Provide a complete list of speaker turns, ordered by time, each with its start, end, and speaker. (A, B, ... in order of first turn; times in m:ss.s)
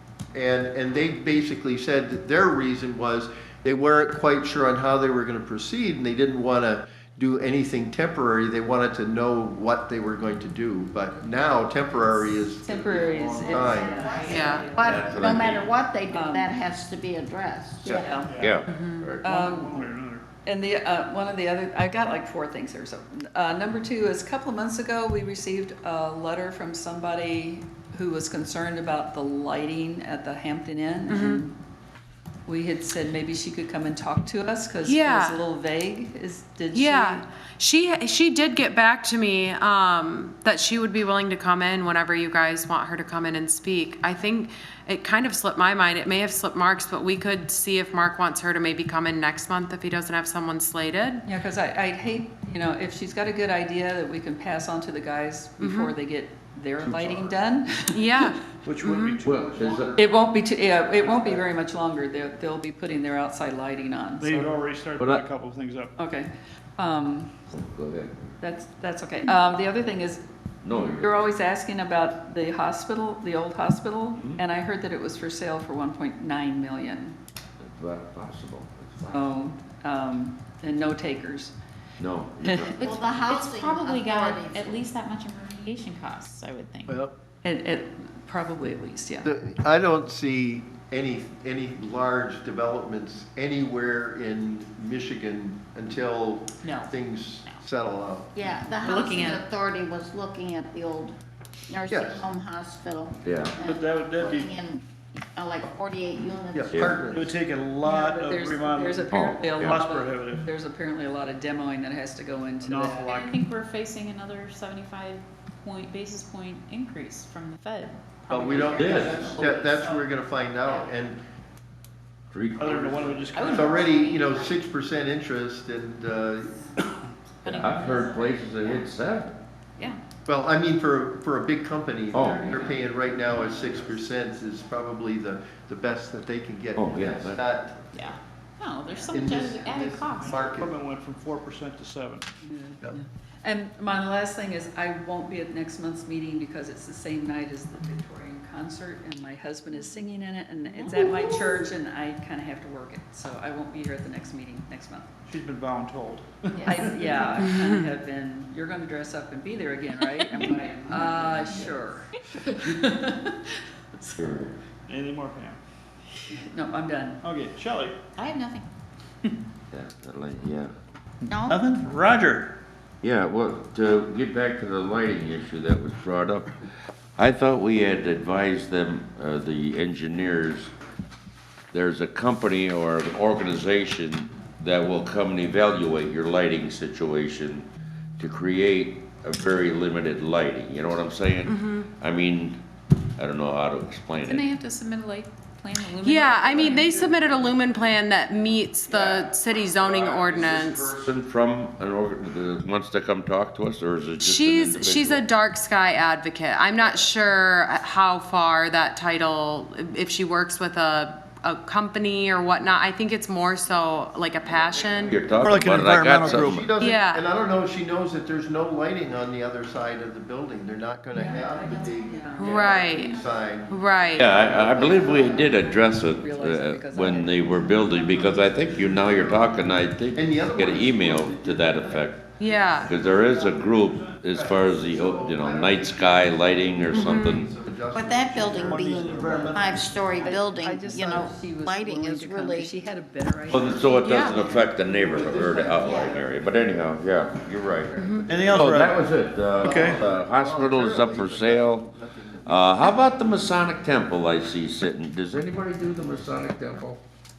0:00.3-0:14.8 A
0:11.0-0:15.5 B
0:13.5-0:18.3 C
0:13.5-0:15.0 D
0:14.3-0:14.6 E
0:14.8-0:15.7 F
0:16.1-0:16.5 B
0:17.8-0:18.1 A
0:17.8-0:18.5 B
0:18.2-0:18.6 G
0:18.4-0:19.3 F
0:18.7-0:19.1 E
0:19.2-0:19.9 B
0:19.2-0:20.2 G
0:20.4-0:31.6 B
0:31.1-0:31.4 E
0:32.5-0:37.2 B
0:34.8-0:35.4 E
0:36.7-0:51.2 E
0:51.2-0:58.0 B
0:55.6-0:55.9 E
0:56.8-0:57.3 F
0:57.9-0:59.2 E
0:58.6-1:00.0 G
0:59.2-1:00.0 F
0:59.9-1:04.6 B
1:01.0-1:01.4 G
1:04.2-1:05.9 G
1:05.0-1:05.2 F
1:06.0-1:07.4 B
1:07.5-1:08.3 F
1:08.4-1:17.2 B
1:10.6-1:11.3 F
1:17.6-1:19.2 F
1:19.0-1:21.5 B
1:22.0-1:22.8 F
1:22.4-1:22.7 B
1:22.8-1:27.0 D
1:22.8-1:24.8 C
1:26.9-1:27.1 A
1:27.4-1:29.3 B
1:29.2-1:38.3 A
1:36.6-1:37.6 D
1:38.3-1:41.1 C
1:38.7-1:39.4 D
1:41.7-1:47.0 C
1:41.9-1:42.2 A
1:43.2-1:43.6 F
1:43.6-1:44.5 G
1:46.5-1:47.3 A
1:46.7-1:47.1 F
1:47.1-1:50.4 G
1:47.8-1:53.1 B
1:49.1-1:49.8 F
1:52.6-1:53.4 G
1:53.0-2:00.0 D
1:58.3-2:01.2 A
1:58.7-1:59.4 F
1:59.0-1:59.8 B
2:00.7-2:01.0 D
2:02.3-2:03.5 F
2:02.6-2:03.8 G
2:03.3-2:04.6 D
2:03.5-2:06.7 A
2:07.4-2:08.9 D
2:07.4-2:09.4 F
2:10.2-2:17.9 A
2:12.1-2:13.0 F
2:16.7-2:17.4 F
2:17.9-2:20.6 D
2:19.1-2:20.7 A
2:20.2-2:22.3 G
2:22.4-2:35.1 B
2:30.6-2:31.6 D
2:35.3-2:37.4 G
2:36.6-2:37.2 D
2:36.6-2:44.5 B
2:37.4-2:37.9 E
2:40.3-2:41.7 D
2:44.1-2:44.6 F
2:44.9-2:45.6 G
2:46.3-2:47.2 B
2:47.2-2:48.0 G
2:48.2-2:48.6 D
2:49.7-2:50.7 F
2:51.2-2:52.5 G
2:51.3-2:51.6 C
2:53.0-2:56.5 F
2:57.2-3:00.7 F
3:01.7-3:07.7 F
3:08.2-3:12.6 F
3:11.4-3:11.9 E
3:13.2-3:14.5 F
3:14.2-3:18.0 D
3:16.0-3:20.9 E
3:16.5-3:17.1 F
3:18.9-3:25.3 F
3:24.2-3:35.3 E
3:35.0-3:36.7 F
3:35.4-3:36.6 G
3:36.4-3:45.7 A
3:36.8-3:37.2 E
3:41.1-3:43.4 D
3:41.3-3:42.8 B
3:42.4-3:43.2 E
3:43.7-3:44.4 E
3:44.1-3:52.2 F
3:46.0-3:47.8 B
3:47.8-3:48.4 D
3:48.9-3:52.2 A
3:52.4-3:53.0 E
3:52.8-3:57.5 F
3:52.9-3:54.6 G
3:54.3-3:59.7 A
3:56.9-3:57.5 E
3:57.9-4:02.7 C
3:58.4-4:00.4 G
4:00.2-4:06.2 B
4:03.5-4:17.0 F
4:03.9-4:04.3 E
4:05.7-4:06.1 C
4:07.9-4:08.3 E
4:08.1-4:08.6 A
4:08.2-4:09.0 G
4:09.6-4:13.0 A
4:09.6-4:10.0 G